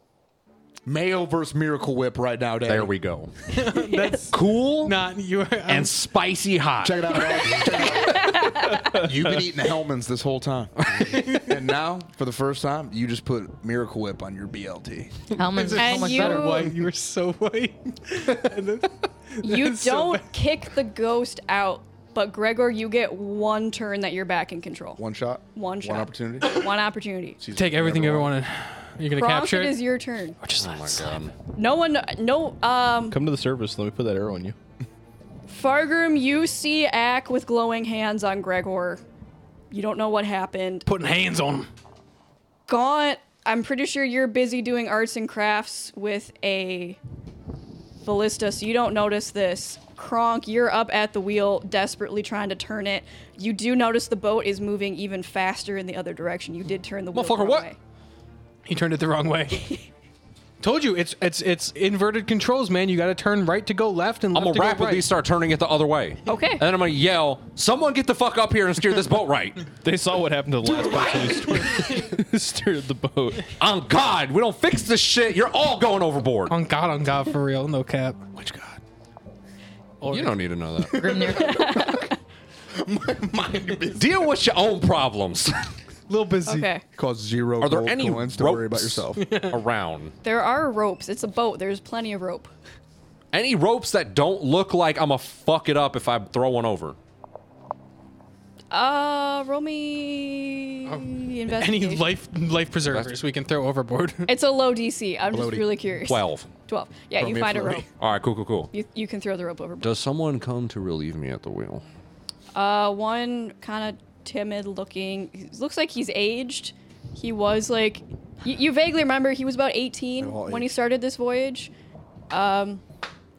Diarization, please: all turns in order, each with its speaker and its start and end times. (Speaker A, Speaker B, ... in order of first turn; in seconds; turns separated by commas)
Speaker A: 0.8-2.9, Speaker B: 2.6-3.3, Speaker C: 3.5-5.9, Speaker D: 3.8-4.2, Speaker B: 4.3-5.0, Speaker B: 5.7-7.6, Speaker A: 6.8-15.1, Speaker D: 7.6-8.9, Speaker E: 8.7-9.4, Speaker C: 11.0-11.6, Speaker F: 15.3-16.6, Speaker C: 15.5-20.3, Speaker D: 15.8-16.7, Speaker D: 19.4-25.0, Speaker A: 25.0-26.6, Speaker D: 25.5-27.4, Speaker C: 26.4-26.7, Speaker A: 27.4-28.3, Speaker C: 27.5-29.8, Speaker D: 29.1-30.4, Speaker C: 30.4-31.2, Speaker B: 30.6-31.3, Speaker D: 31.6-33.2, Speaker E: 33.1-34.5, Speaker D: 35.5-39.0, Speaker D: 39.7-40.8, Speaker C: 40.9-41.7, Speaker D: 42.7-47.0, Speaker D: 48.0-57.8, Speaker B: 57.1-57.7, Speaker C: 58.6-59.8, Speaker C: 60.6-65.1, Speaker B: 64.3-69.7, Speaker D: 66.3-66.6, Speaker E: 69.8-73.5, Speaker C: 71.7-72.2, Speaker B: 73.6-76.5, Speaker C: 76.5-78.2, Speaker A: 78.3-78.8, Speaker C: 80.0-80.4, Speaker B: 80.1-81.2, Speaker A: 80.8-82.1, Speaker F: 80.9-81.9, Speaker D: 81.4-82.1, Speaker A: 82.8-84.2, Speaker B: 83.9-85.7, Speaker C: 86.1-86.7, Speaker D: 86.4-86.8, Speaker A: 86.9-89.2, Speaker B: 87.6-90.1, Speaker C: 89.2-89.6, Speaker D: 90.2-92.5, Speaker B: 93.3-97.0, Speaker D: 98.7-102.1, Speaker C: 100.9-104.3, Speaker B: 102.9-103.2, Speaker D: 104.3-107.9, Speaker A: 105.3-105.7, Speaker B: 106.0-106.5, Speaker A: 107.2-107.8, Speaker B: 108.0-108.7, Speaker D: 108.7-109.9, Speaker B: 109.8-111.8, Speaker D: 112.5-121.7, Speaker A: 120.2-120.7, Speaker D: 122.3-122.8